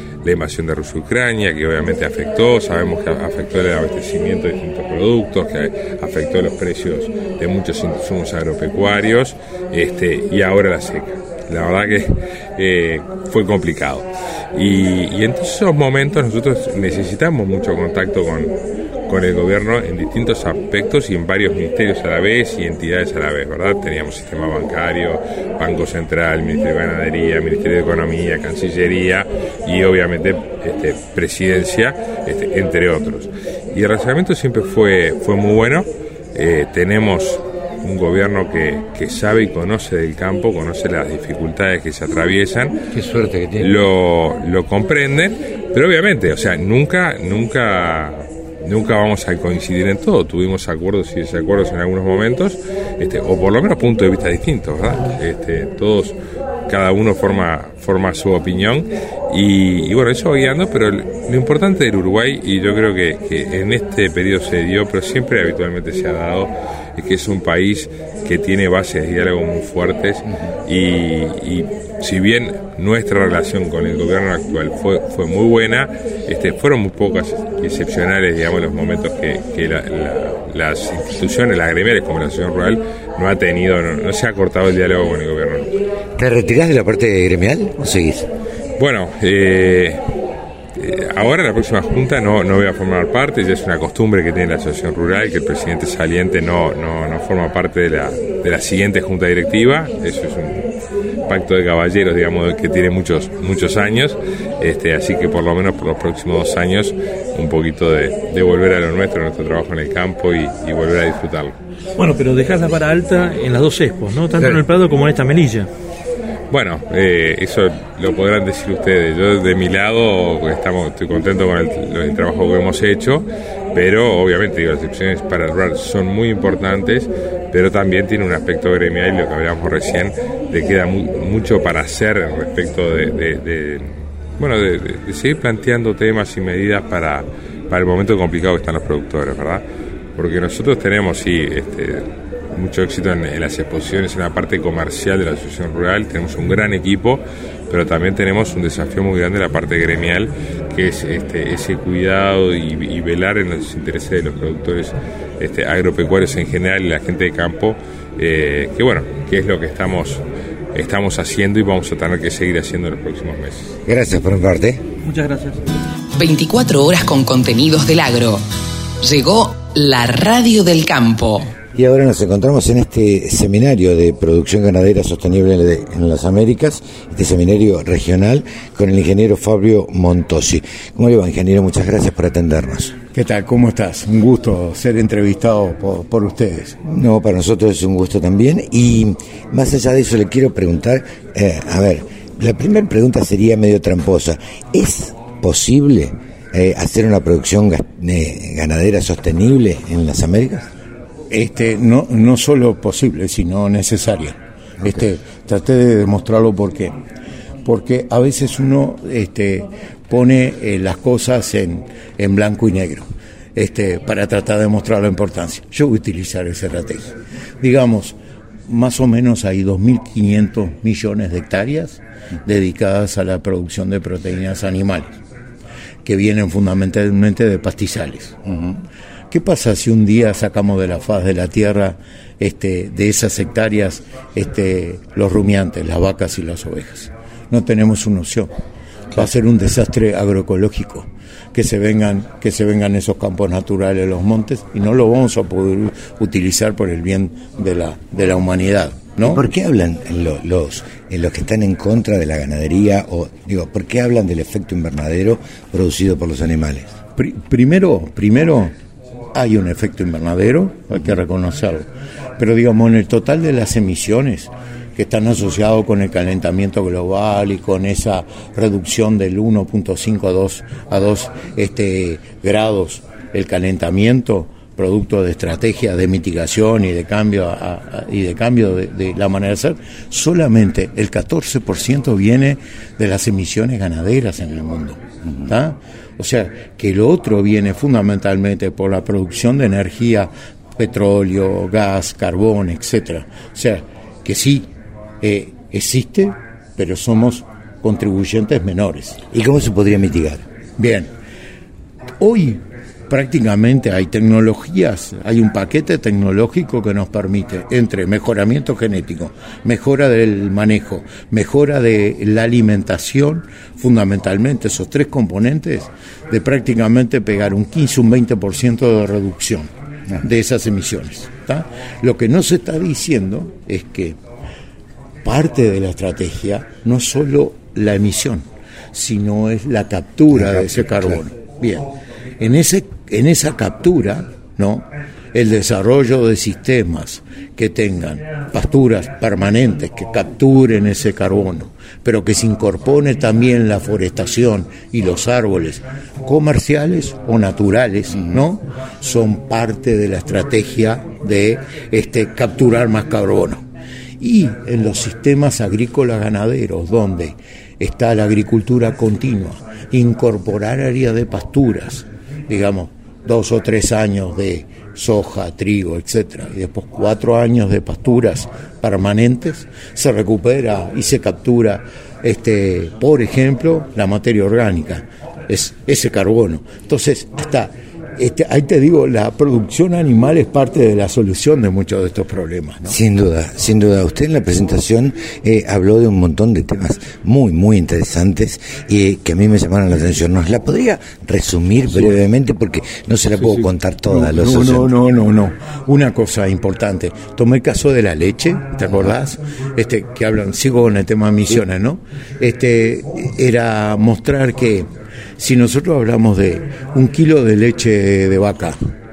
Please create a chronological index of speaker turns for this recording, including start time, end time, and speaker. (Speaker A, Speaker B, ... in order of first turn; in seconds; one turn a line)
Speaker A: 0.2-18.5
Speaker A: 19.1-42.8
Speaker B: 42.9-43.7
Speaker A: 43.6-56.1
Speaker A: 56.7-85.7
Speaker B: 86.2-88.3
Speaker A: 88.8-90.0
Speaker A: 90.8-100.6
Speaker A: 101.3-111.6
Speaker C: 112.0-115.7
Speaker A: 116.5-139.6
Speaker A: 140.2-160.2
Speaker A: 160.7-163.7
Speaker B: 163.8-164.8
Speaker C: 165.1-165.6
Speaker D: 166.2-168.4
Speaker D: 169.0-171.5
Speaker B: 171.7-182.9
Speaker E: 183.1-186.8
Speaker B: 186.8-200.7
Speaker E: 201.3-206.9
Speaker E: 207.6-225.2
Speaker E: 226.0-228.5
Speaker E: 229.3-238.5
Speaker E: 239.1-249.4
Speaker B: 249.2-256.9
Speaker E: 257.1-258.7
Speaker E: 259.3-294.7
Speaker E: 295.2-299.2
Speaker B: 299.3-300.4
Speaker E: 300.8-301.1
Speaker E: 302.2-324.2
Speaker E: 325.2-353.6
Speaker E: 354.2-383.0
Speaker B: 382.9-394.9
Speaker E: 391.9-392.1
Speaker E: 393.4-408.8